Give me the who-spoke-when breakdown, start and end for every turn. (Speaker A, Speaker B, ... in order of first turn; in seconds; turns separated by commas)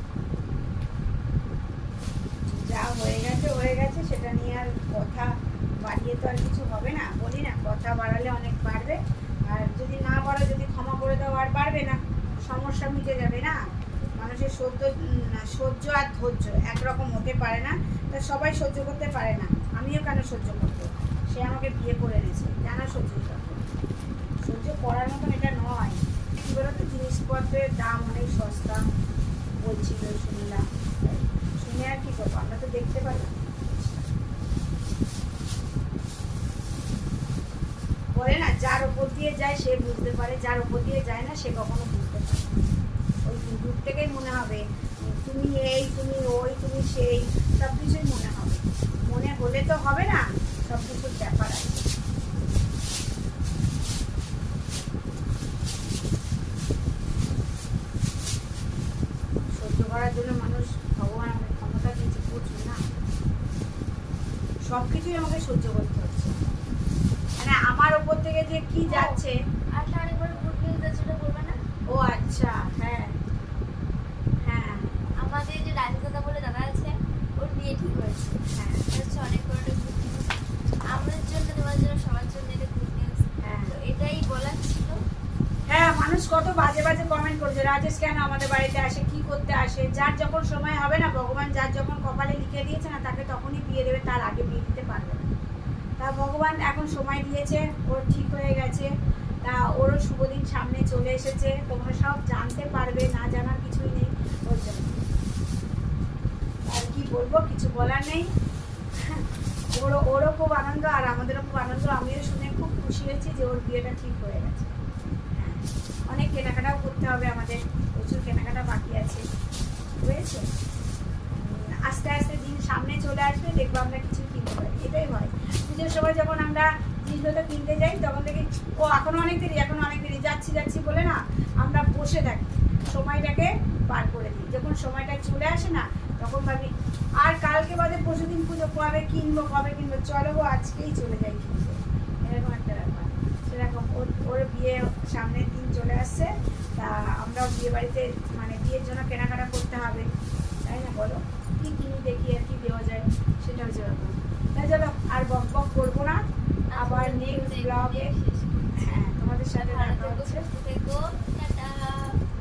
Speaker A: 2.5-5.3, Speaker A: 5.8-13.6, Speaker A: 14.2-23.6, Speaker A: 24.4-28.8, Speaker A: 29.6-34.0, Speaker A: 38.1-42.6, Speaker A: 43.3-51.9, Speaker A: 59.5-62.8, Speaker A: 64.7-66.4, Speaker A: 67.4-69.4, Speaker B: 68.9-69.2, Speaker B: 69.7-71.6, Speaker A: 71.9-73.1, Speaker A: 74.4-74.9, Speaker B: 74.8-78.4, Speaker A: 78.5-78.9, Speaker B: 78.9-80.3, Speaker B: 80.9-85.0, Speaker A: 83.4-83.8, Speaker A: 85.7-95.3, Speaker A: 96.0-98.9, Speaker A: 99.4-105.0, Speaker A: 106.7-108.3, Speaker A: 109.0-114.7, Speaker A: 115.3-119.2, Speaker A: 120.0-120.5, Speaker A: 121.3-150.1, Speaker A: 150.6-156.2, Speaker B: 156.7-159.0, Speaker A: 156.8-158.1, Speaker A: 158.8-160.4, Speaker B: 159.7-162.2